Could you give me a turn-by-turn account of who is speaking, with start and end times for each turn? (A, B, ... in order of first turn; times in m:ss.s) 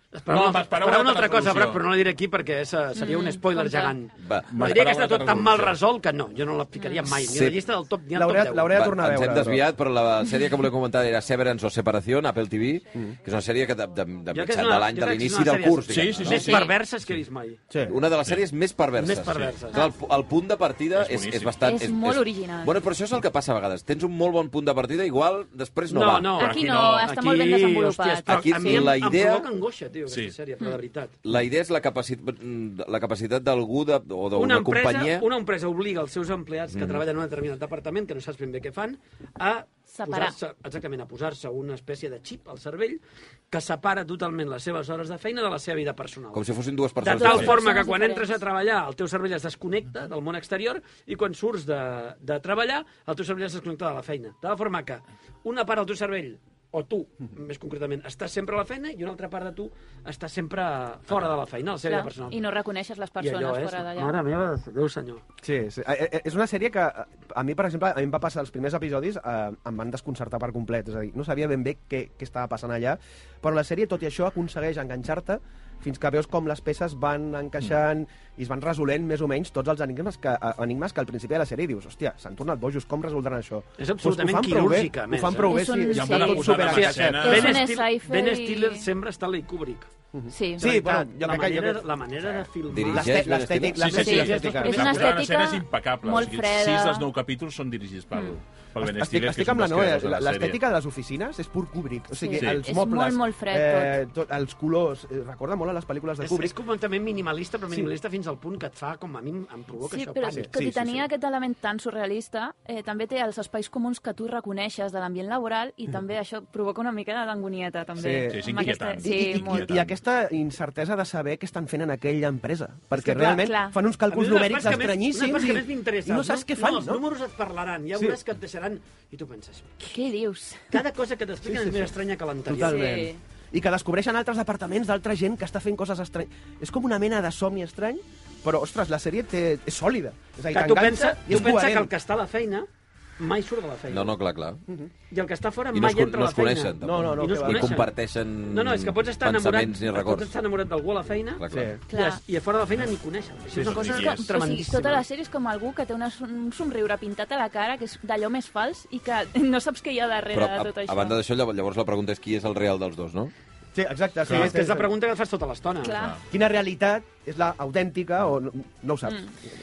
0:00.1-0:08.8 A
0:00.3-0:01.9 B
0:03.0-0:04.0 C
0:04.2-0:04.8 D
0:04.5-0:05.8 B
0:06.7-0:07.2 C
0:07.2-0:07.6 D
0:08.1-0:09.7 E
0:08.7-0:16.6 D
0:14.3-0:17.6 A
0:15.9-0:17.2 B
0:16.4-0:16.7 C
0:17.7-0:18.0 E
0:17.9-0:27.0 D
0:19.0-0:19.9 A
0:20.9-0:21.6 B
0:21.6-0:22.8 C
0:25.9-0:31.2 A
0:26.4-0:28.9 C
0:28.3-0:29.5 D
0:30.1-0:30.3 B
0:31.2-0:35.3 D
0:34.3-0:46.5 A
0:36.7-0:37.0 D
0:39.9-0:40.4 C
0:46.3-0:47.6 D
0:47.0-1:02.4 A
0:47.1-0:48.4 C
1:01.9-1:04.2 C
1:03.2-1:05.2 A
1:05.4-1:27.6 E
1:23.8-1:25.8 A
1:25.4-1:28.9 C
1:25.9-1:27.7 B
1:26.6-1:29.9 A
1:30.1-1:31.9 E
1:30.3-1:30.7 C
1:30.6-1:35.1 A
1:32.7-1:34.1 D
1:32.9-1:35.1 E
1:33.7-1:40.6 B
1:34.0-1:37.1 C
1:38.8-1:46.6 E
1:42.1-1:44.0 C
1:46.2-1:50.5 A
1:49.8-1:59.7 C
1:50.3-1:51.0 E
1:58.0-2:07.0 E
1:58.3-2:00.0 B
2:03.0-2:03.8 C
2:04.1-2:09.8 A
2:09.8-2:10.7 C
2:10.7-2:12.9 A
2:11.4-2:21.9 E
2:12.5-2:13.2 C
2:20.5-2:22.7 A
2:23.2-2:24.2 A
2:23.9-2:24.6 D
2:25.1-2:35.0 A
2:25.7-2:30.3 D
2:26.8-2:27.8 E
2:31.4-2:31.8 D
2:31.5-2:31.8 E
2:31.9-2:32.2 C
2:33.5-2:34.3 B
2:33.9-2:41.2 C
2:40.3-2:43.3 D
2:43.7-2:44.9 E
2:44.2-2:46.0 A
2:44.3-2:44.5 B
2:45.8-2:46.2 C
2:45.9-2:46.2 B
2:46.3-2:49.3 E